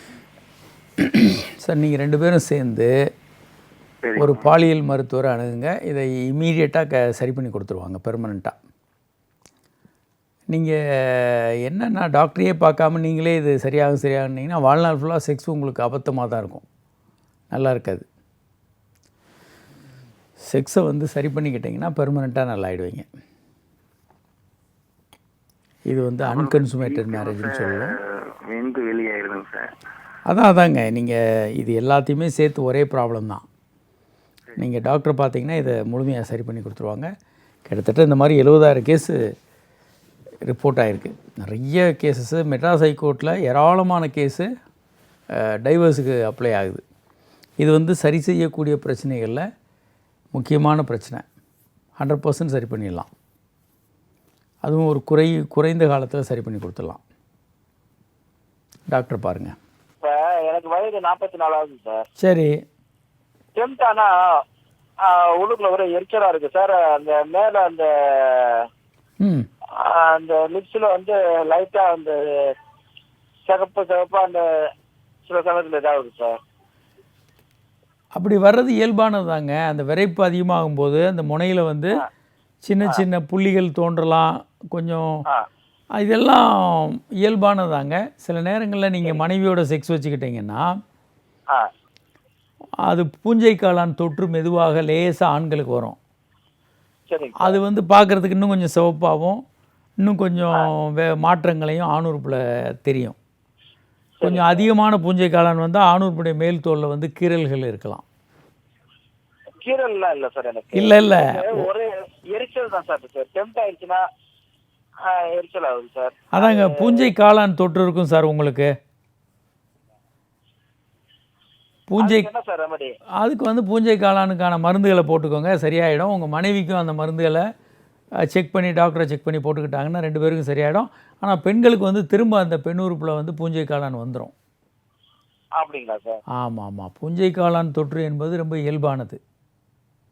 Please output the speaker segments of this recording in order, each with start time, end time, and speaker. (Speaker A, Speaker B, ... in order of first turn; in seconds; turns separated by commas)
Speaker A: 1.0-2.9, Speaker B: 4.0-4.5, Speaker A: 4.2-8.6, Speaker A: 10.5-16.6, Speaker A: 17.5-18.1, Speaker A: 20.5-23.1, Speaker A: 25.9-28.0, Speaker B: 26.3-29.7, Speaker A: 30.3-33.5, Speaker A: 34.6-37.1, Speaker A: 37.7-39.2, Speaker A: 40.5-44.5, Speaker A: 45.4-46.8, Speaker A: 47.6-49.4, Speaker A: 50.4-51.2, Speaker A: 52.0-53.1, Speaker A: 54.6-57.0, Speaker A: 58.9-59.5, Speaker C: 60.0-62.1, Speaker A: 62.2-62.6, Speaker C: 63.6-64.1, Speaker C: 65.0-68.7, Speaker A: 69.2-69.5, Speaker C: 69.8-72.2, Speaker C: 73.5-74.4, Speaker C: 75.3-76.3, Speaker A: 78.2-82.0, Speaker A: 82.6-85.2, Speaker A: 86.0-90.7, Speaker A: 92.9-96.0, Speaker C: 97.1-97.6, Speaker A: 97.4-99.4, Speaker A: 100.0-103.2, Speaker C: 104.2-104.7, Speaker A: 104.2-108.0, Speaker C: 109.6-114.0, Speaker A: 110.8-111.7, Speaker C: 115.1-117.1, Speaker A: 116.3-118.7, Speaker A: 121.9-122.3, Speaker C: 122.0-123.0, Speaker A: 123.2-127.4, Speaker A: 128.3-134.3, Speaker C: 135.6-136.2, Speaker A: 136.4-139.2